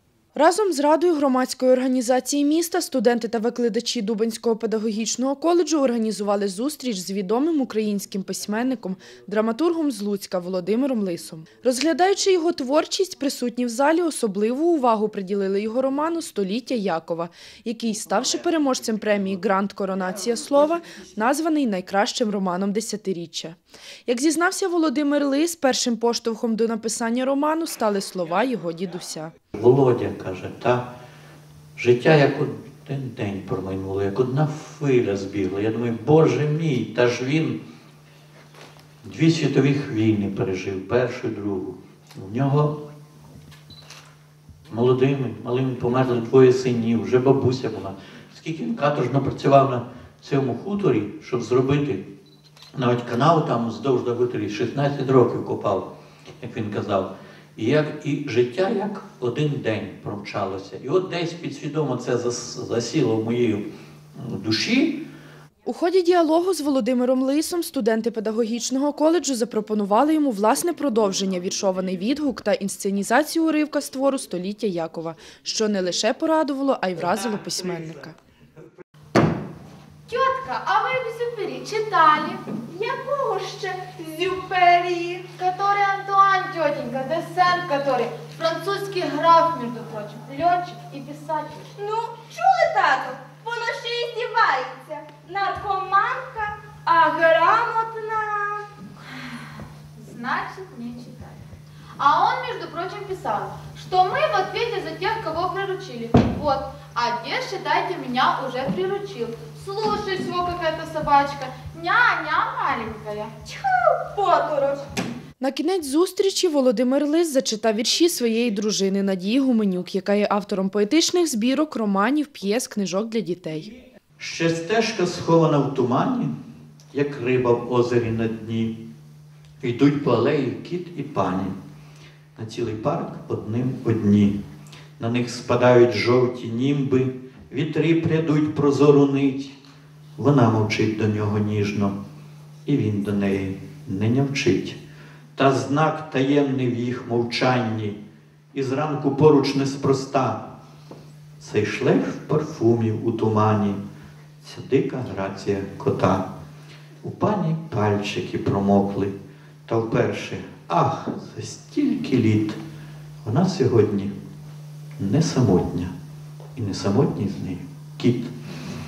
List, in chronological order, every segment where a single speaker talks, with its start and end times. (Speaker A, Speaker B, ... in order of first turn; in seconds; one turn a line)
Speaker A: 0.3-29.3
Speaker B: 29.5-30.9
Speaker B: 31.8-37.6
Speaker B: 39.0-42.8
Speaker B: 44.7-52.1
Speaker B: 52.7-55.9
Speaker B: 56.4-65.0
Speaker A: 65.7-78.2
Speaker C: 80.1-82.4
Speaker D: 82.7-85.3
Speaker C: 85.3-91.7
Speaker D: 91.8-98.7
Speaker C: 100.0-101.4
Speaker C: 102.0-113.3
Speaker D: 113.5-114.8
Speaker A: 115.4-123.7
Speaker B: 124.2-126.3
Speaker B: 126.9-128.7
Speaker B: 129.6-131.6
Speaker B: 132.4-134.3
Speaker B: 135.0-139.6
Speaker B: 140.2-141.9
Speaker B: 142.7-144.8
Speaker B: 145.3-148.0
Speaker B: 148.5-150.4
Speaker B: 151.4-153.8
Speaker B: 154.4-156.3
Speaker B: 157.0-159.2
Speaker B: 159.7-162.6
Speaker B: 163.2-164.1
Speaker B: 165.0-165.9
Speaker B: 166.6-168.3